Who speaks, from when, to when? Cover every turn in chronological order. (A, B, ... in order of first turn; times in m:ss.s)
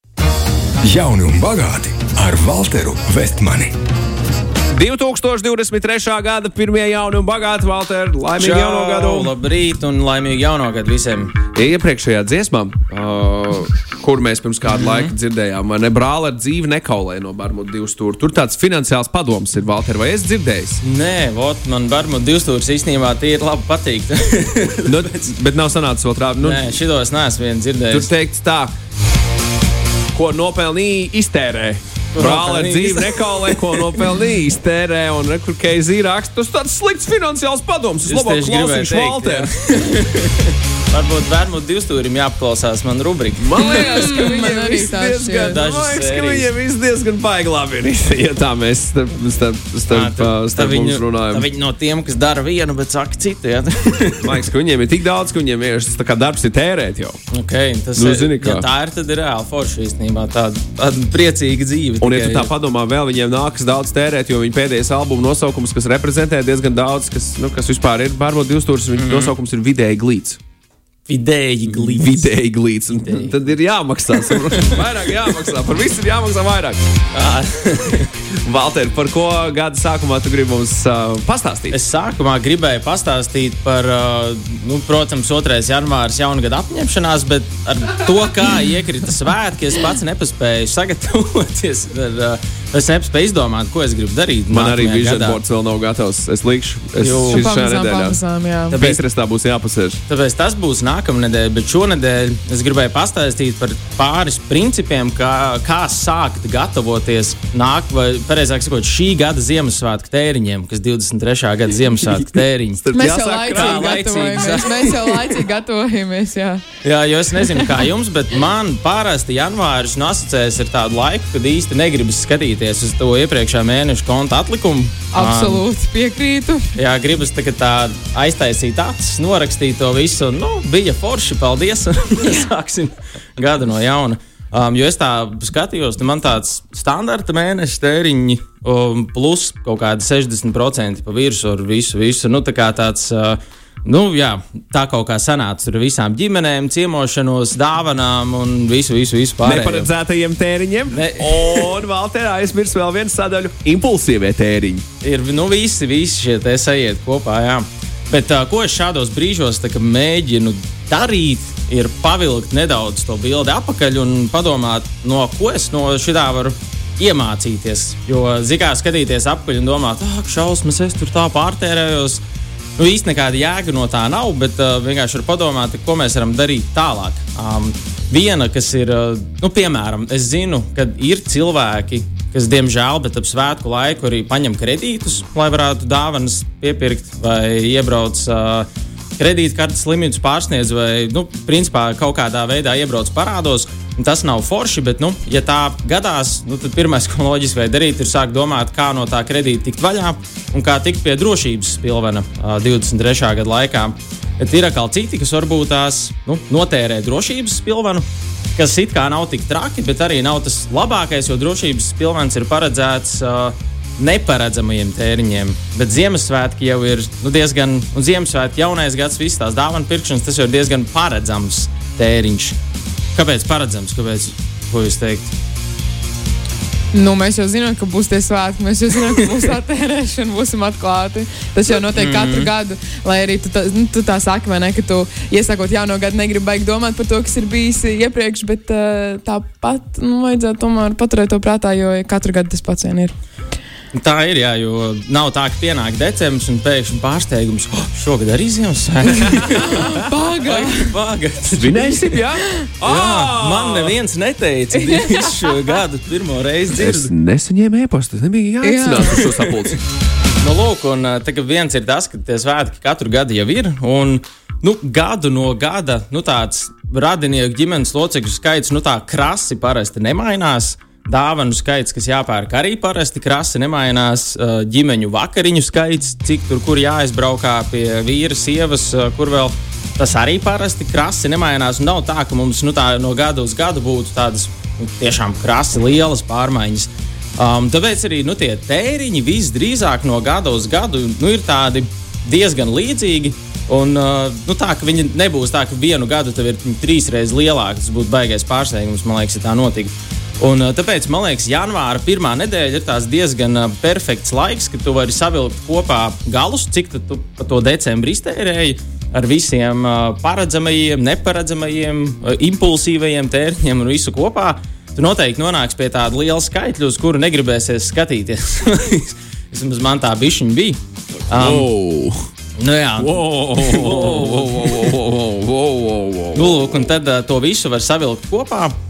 0:00.9-0:03.7 A
0:04.7-0:09.3 B
0:08.4-0:11.4 C
0:11.6-0:20.8 B
0:14.7-0:15.1 C
0:20.8-0:25.3 C
0:24.9-0:26.7 B
0:26.4-0:28.1 C
0:27.9-0:28.7 B
0:30.1-0:39.5 B
0:32.1-0:34.1 C
0:38.0-0:44.3 C
0:43.4-0:51.4 B
0:43.6-0:45.6 D
0:45.4-0:46.5 C
0:49.9-0:54.3 C
0:54.2-0:57.2 B
0:57.3-1:02.5 C
0:58.0-0:58.6 B
1:02.0-1:10.4 B
1:09.0-1:09.3 C
1:11.0-1:12.3 C
1:11.7-1:16.8 B
1:12.9-1:13.3 C
1:14.2-1:14.8 C
1:17.1-1:18.1 C
1:18.4-1:21.8 B
1:21.7-1:35.4 C
1:34.5-1:40.0 B
1:37.0-1:37.5 C
1:37.3-1:38.8 D
1:38.7-1:39.0 C
1:40.1-1:52.8 C
1:52.1-1:53.9 B
1:52.9-1:56.6 D
1:53.5-1:55.4 C
1:56.8-2:05.6 C
2:05.1-2:06.7 D
2:06.8-2:29.9 C
2:29.4-2:34.8 B
2:30.9-2:31.8 C
2:35.0-2:52.2 C
2:52.8-3:42.6 C
3:43.2-3:45.3 C
3:46.9-4:03.1 D
3:51.9-3:52.5 C
4:03.9-4:12.2 C
4:09.6-4:10.9 D
4:11.6-4:13.9 B
4:12.8-4:17.1 C
4:16.8-4:19.8 B
4:18.6-4:19.2 D
4:19.0-4:19.5 C
4:20.4-5:20.8 C
5:21.3-5:21.7 C
5:21.3-5:22.3 B
5:22.6-5:24.9 C
5:23.0-5:26.9 B
5:26.3-5:28.7 C